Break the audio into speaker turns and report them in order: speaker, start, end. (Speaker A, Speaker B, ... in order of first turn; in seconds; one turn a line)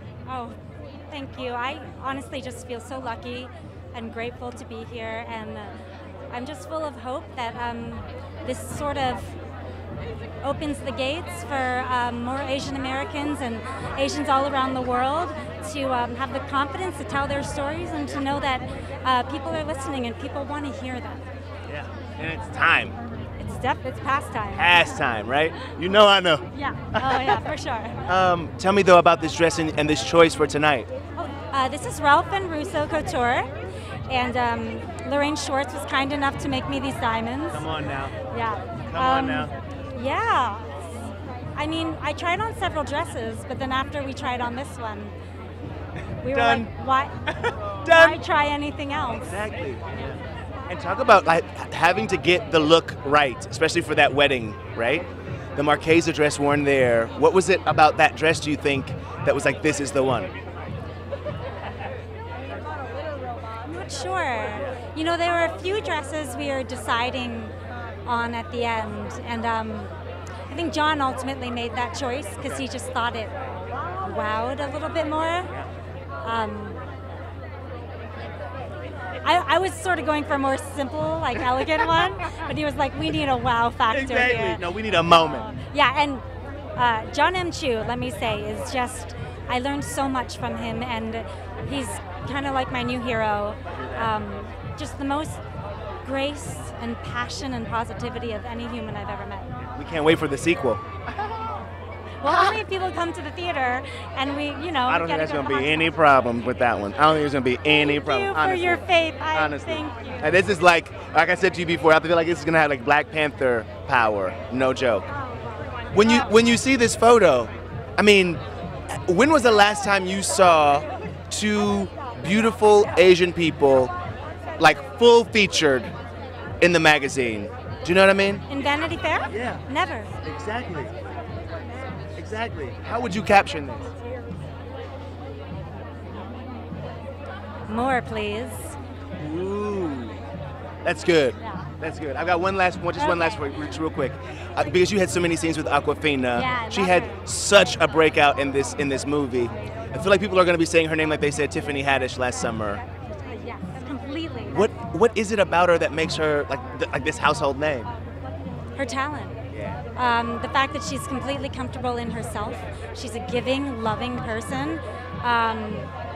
Speaker A: 0.3-0.6
Speaker A: 1.1-5.7
Speaker A: 6.3-9.3
Speaker A: 10.4-21.2
Speaker B: 21.7-23.0
Speaker A: 23.4-24.9
Speaker B: 24.5-27.4
Speaker A: 26.5-28.1
Speaker B: 28.0-30.9
Speaker A: 31.2-33.5
Speaker A: 34.1-37.7
Speaker B: 37.5-38.2
Speaker A: 38.2-45.1
Speaker B: 38.7-39.5
Speaker A: 46.2-47.2
Speaker B: 46.2-46.7
Speaker B: 47.3-48.2
Speaker A: 47.8-49.4
Speaker B: 49.1-50.1
Speaker B: 50.7-60.3
Speaker A: 63.6-67.5
Speaker A: 68.0-69.9
Speaker A: 70.5-73.3
Speaker A: 74.0-75.5
Speaker A: 76.2-76.8
Speaker A: 79.2-95.4
Speaker B: 83.9-85.5
Speaker B: 93.8-94.1
Speaker A: 96.0-99.5
Speaker B: 99.7-100.8
Speaker A: 102.2-105.9
Speaker B: 104.9-115.0
Speaker A: 107.7-110.3
Speaker B: 115.9-123.9
Speaker A: 116.0-116.3
Speaker B: 124.6-125.9
Speaker B: 126.6-128.4
Speaker A: 128.5-130.1
Speaker B: 129.3-129.6
Speaker B: 130.2-130.9
Speaker B: 132.2-133.9
Speaker A: 137.7-138.8
Speaker B: 139.2-140.2
Speaker B: 140.8-152.8
Speaker A: 141.4-141.7
Speaker A: 142.9-143.5
Speaker A: 146.3-147.3
Speaker A: 153.2-154.7
Speaker B: 154.4-157.9
Speaker A: 158.7-159.4
Speaker B: 159.5-159.8
Speaker A: 159.9-165.9